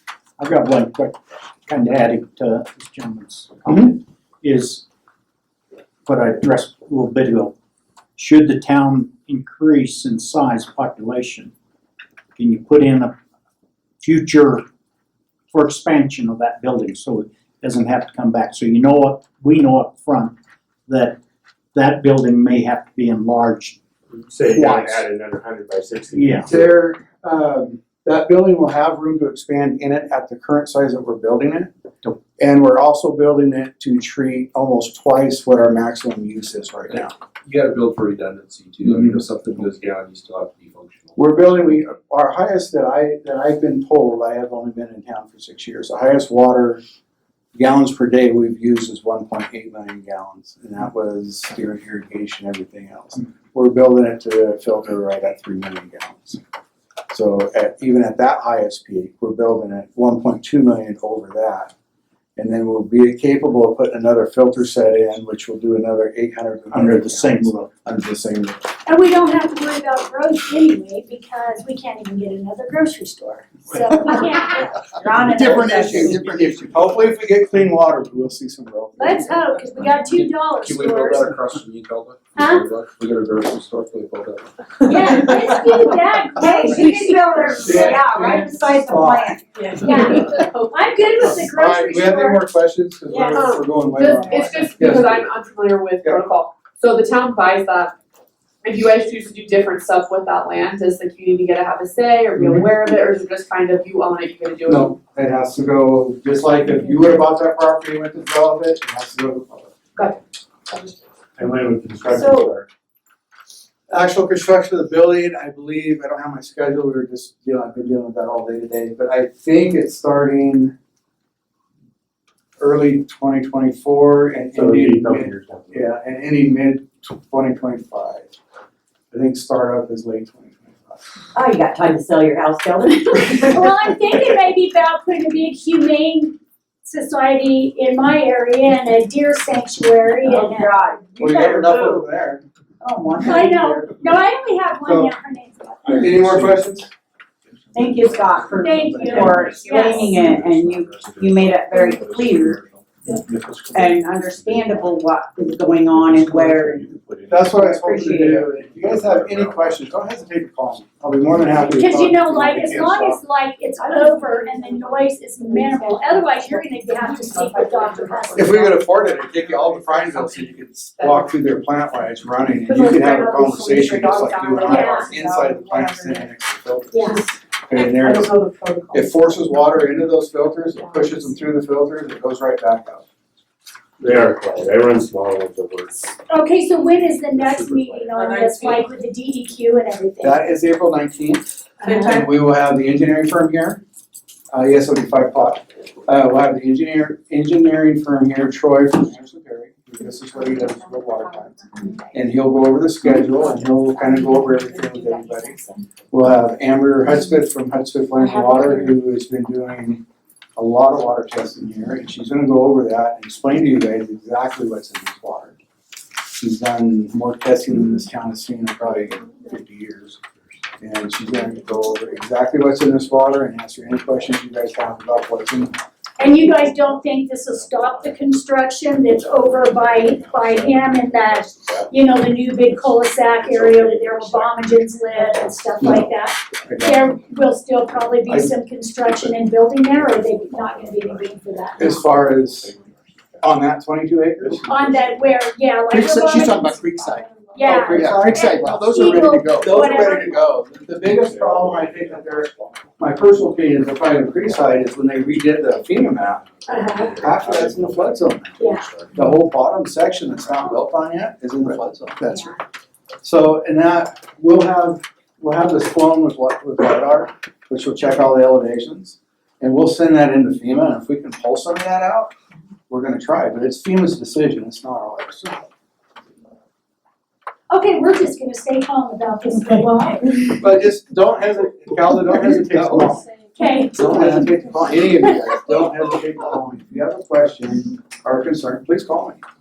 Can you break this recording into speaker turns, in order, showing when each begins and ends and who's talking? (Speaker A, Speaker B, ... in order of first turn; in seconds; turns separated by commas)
Speaker A: 0.4-4.8, Speaker B: 3.7-3.9, Speaker A: 6.0-7.5, Speaker A: 8.2-11.5, Speaker A: 12.3-13.1, Speaker A: 14.0-14.6, Speaker A: 15.5-20.4, Speaker A: 20.9-21.2, Speaker A: 21.7-23.8, Speaker C: 24.1-26.5, Speaker A: 24.4-25.1, Speaker A: 26.1-26.5, Speaker B: 26.4-31.7, Speaker B: 32.4-37.1, Speaker D: 36.9-41.2, Speaker B: 41.1-46.8, Speaker B: 47.5-56.4, Speaker B: 57.1-61.7, Speaker B: 62.4-68.6, Speaker A: 66.7-67.7, Speaker E: 68.8-75.6, Speaker F: 75.0-76.2, Speaker B: 75.3-79.4, Speaker A: 75.5-76.6, Speaker E: 79.0-81.3, Speaker D: 80.1-85.8, Speaker E: 82.3-82.7, Speaker E: 84.8-88.4, Speaker F: 86.3-89.4, Speaker B: 87.5-89.3, Speaker G: 89.5-91.4, Speaker E: 89.8-92.4, Speaker B: 91.2-95.2, Speaker F: 93.1-93.5, Speaker G: 93.3-97.9, Speaker G: 98.6-105.0, Speaker B: 102.4-102.7, Speaker B: 104.7-109.7, Speaker G: 110.0-111.0, Speaker C: 111.4-112.6, Speaker F: 112.1-112.6, Speaker B: 113.9-120.7, Speaker B: 122.6-128.3, Speaker C: 124.5-125.8, Speaker B: 129.1-131.0, Speaker F: 131.3-133.7, Speaker E: 133.5-140.7, Speaker F: 140.2-142.1, Speaker B: 141.2-142.4, Speaker F: 142.8-143.9, Speaker E: 143.2-146.2, Speaker B: 143.2-143.8, Speaker B: 144.8-145.1, Speaker B: 145.8-146.9, Speaker C: 146.0-146.6, Speaker C: 147.6-155.0, Speaker F: 147.7-152.6, Speaker E: 148.6-150.1, Speaker F: 153.7-156.9, Speaker C: 155.9-157.5, Speaker B: 157.3-163.2, Speaker F: 157.4-158.5, Speaker C: 158.5-160.1, Speaker E: 161.7-168.7, Speaker G: 163.8-171.3, Speaker B: 168.3-178.3, Speaker G: 172.6-176.4, Speaker E: 174.6-175.1, Speaker E: 176.9-177.2, Speaker G: 176.9-180.0, Speaker B: 178.9-183.1, Speaker G: 180.7-181.4, Speaker C: 184.0-186.1, Speaker E: 186.3-190.4, Speaker C: 187.3-188.1, Speaker G: 188.2-188.8, Speaker B: 190.2-193.8, Speaker G: 191.8-192.3, Speaker B: 194.5-201.6, Speaker G: 200.3-201.9, Speaker B: 202.1-205.6, Speaker G: 203.1-205.8, Speaker B: 206.1-210.0, Speaker G: 208.2-208.8, Speaker B: 210.6-215.6, Speaker B: 216.4-220.2, Speaker B: 220.8-225.8, Speaker C: 223.8-224.9, Speaker E: 226.2-242.0, Speaker C: 226.6-228.5, Speaker C: 229.1-235.8, Speaker B: 235.8-236.1, Speaker C: 236.3-237.2, Speaker B: 236.7-237.1, Speaker C: 239.0-239.3, Speaker C: 239.9-243.6, Speaker B: 241.8-242.7, Speaker B: 243.4-244.8, Speaker C: 244.4-245.2, Speaker E: 244.7-250.5, Speaker C: 245.9-253.1, Speaker B: 247.8-256.4, Speaker C: 253.7-259.2, Speaker E: 256.7-257.2, Speaker B: 257.0-258.6, Speaker E: 258.6-258.9, Speaker B: 259.1-262.5, Speaker B: 263.2-272.3, Speaker B: 272.9-275.6, Speaker E: 277.7-280.4, Speaker B: 280.4-283.2, Speaker D: 282.4-283.2, Speaker E: 283.6-284.4, Speaker B: 283.9-289.4